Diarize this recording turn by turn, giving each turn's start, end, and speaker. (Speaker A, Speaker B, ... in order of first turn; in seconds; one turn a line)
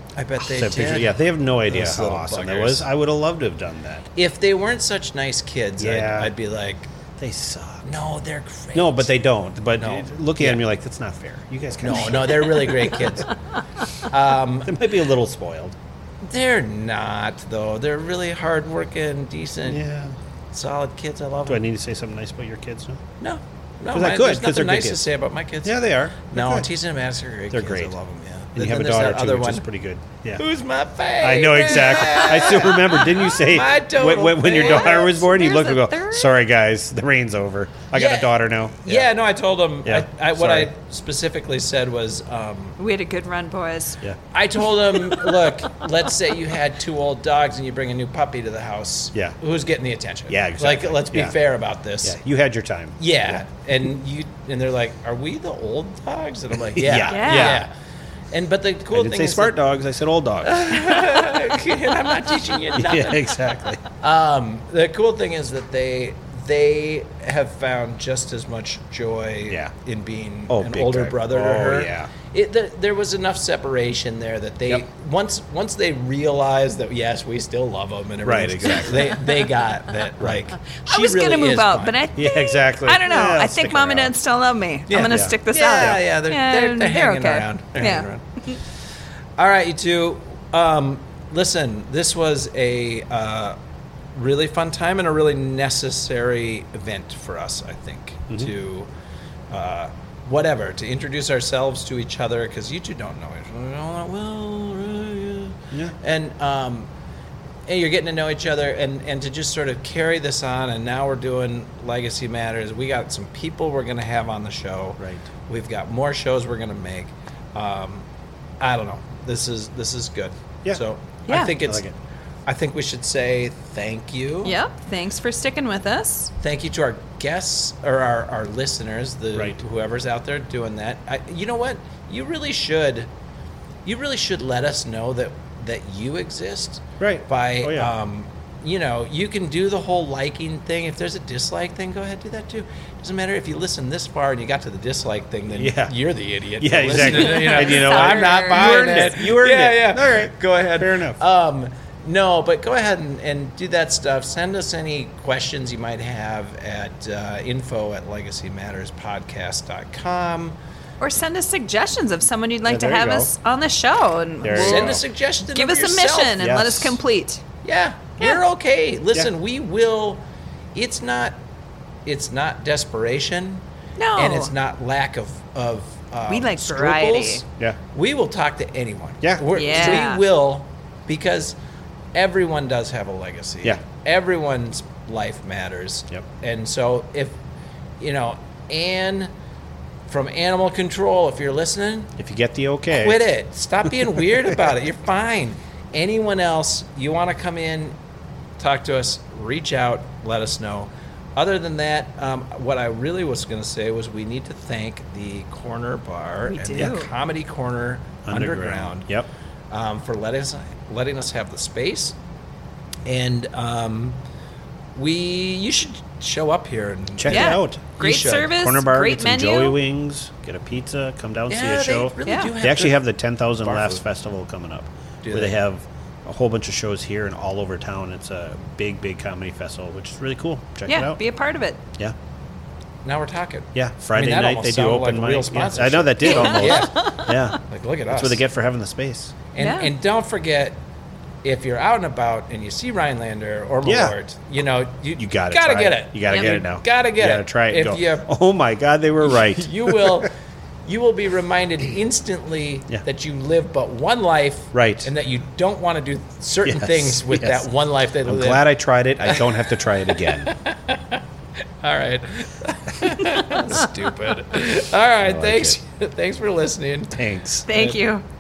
Speaker A: 0.2-2.9
Speaker B: 0.4-4.1
Speaker A: 4.2-6.9
Speaker B: 5.8-6.3
Speaker B: 7.2-8.0
Speaker A: 7.9-9.1
Speaker B: 8.7-13.2
Speaker A: 9.8-10.6
Speaker A: 11.8-13.3
Speaker A: 14.0-14.8
Speaker B: 14.7-15.8
Speaker A: 16.2-19.8
Speaker B: 19.7-20.1
Speaker A: 20.5-21.6
Speaker B: 21.5-23.0
Speaker A: 23.2-29.6
Speaker B: 23.9-25.0
Speaker B: 25.6-26.7
Speaker B: 27.5-27.9
Speaker B: 28.6-30.4
Speaker A: 30.4-35.1
Speaker B: 31.2-39.1
Speaker C: 34.5-36.3
Speaker A: 37.9-42.8
Speaker B: 39.8-40.7
Speaker C: 42.8-44.0
Speaker A: 44.3-52.2
Speaker B: 50.3-51.4
Speaker B: 52.0-53.4
Speaker A: 53.0-57.7
Speaker B: 56.6-57.7
Speaker C: 57.1-57.6
Speaker A: 58.3-59.5
Speaker B: 58.9-61.4
Speaker A: 60.5-63.3
Speaker B: 62.8-63.8
Speaker A: 64.0-82.0
Speaker B: 70.5-72.1
Speaker B: 78.2-79.2
Speaker C: 80.8-88.6
Speaker B: 82.2-84.2
Speaker A: 84.9-88.2
Speaker B: 85.1-86.0
Speaker A: 89.4-93.6
Speaker A: 94.1-98.9
Speaker A: 99.5-106.9
Speaker A: 107.7-118.0
Speaker B: 115.0-115.2
Speaker A: 118.6-121.9
Speaker C: 121.3-121.5
Speaker B: 121.6-121.9
Speaker A: 122.5-124.6
Speaker C: 124.4-126.3
Speaker A: 126.4-133.1
Speaker A: 133.8-160.6
Speaker B: 137.0-137.9
Speaker B: 145.5-145.9
Speaker B: 146.6-151.2
Speaker C: 146.9-149.0
Speaker C: 161.0-167.4
Speaker B: 162.7-163.3
Speaker B: 164.4-165.0
Speaker A: 164.5-166.4
Speaker B: 166.4-167.0
Speaker A: 167.6-170.2
Speaker A: 170.7-171.4
Speaker A: 172.1-173.6
Speaker C: 174.0-174.5
Speaker A: 174.2-181.6
Speaker C: 176.3-177.4
Speaker B: 179.2-180.0
Speaker C: 179.5-180.2
Speaker A: 182.1-187.4
Speaker A: 188.0-189.3
Speaker A: 190.1-192.1
Speaker B: 192.2-193.2
Speaker A: 192.9-197.9
Speaker A: 198.6-209.1
Speaker C: 206.5-207.1
Speaker B: 208.3-209.3
Speaker A: 209.7-212.2
Speaker A: 213.1-214.2
Speaker A: 214.9-218.5
Speaker B: 217.2-231.2
Speaker C: 217.3-219.8
Speaker A: 221.5-223.0
Speaker C: 222.2-222.5
Speaker A: 223.6-224.0
Speaker A: 225.2-225.6
Speaker C: 230.9-231.8
Speaker A: 233.0-238.4
Speaker B: 233.8-239.4
Speaker C: 236.2-237.6
Speaker A: 239.5-240.8
Speaker C: 239.6-239.9
Speaker A: 241.4-248.3
Speaker B: 243.8-244.2
Speaker B: 245.2-250.3
Speaker A: 249.2-250.3
Speaker A: 250.8-258.6
Speaker B: 254.7-255.1
Speaker B: 256.6-257.7
Speaker B: 258.2-260.5
Speaker A: 259.3-261.2
Speaker A: 261.8-268.0
Speaker B: 265.2-265.8
Speaker B: 267.1-267.7
Speaker C: 267.7-268.2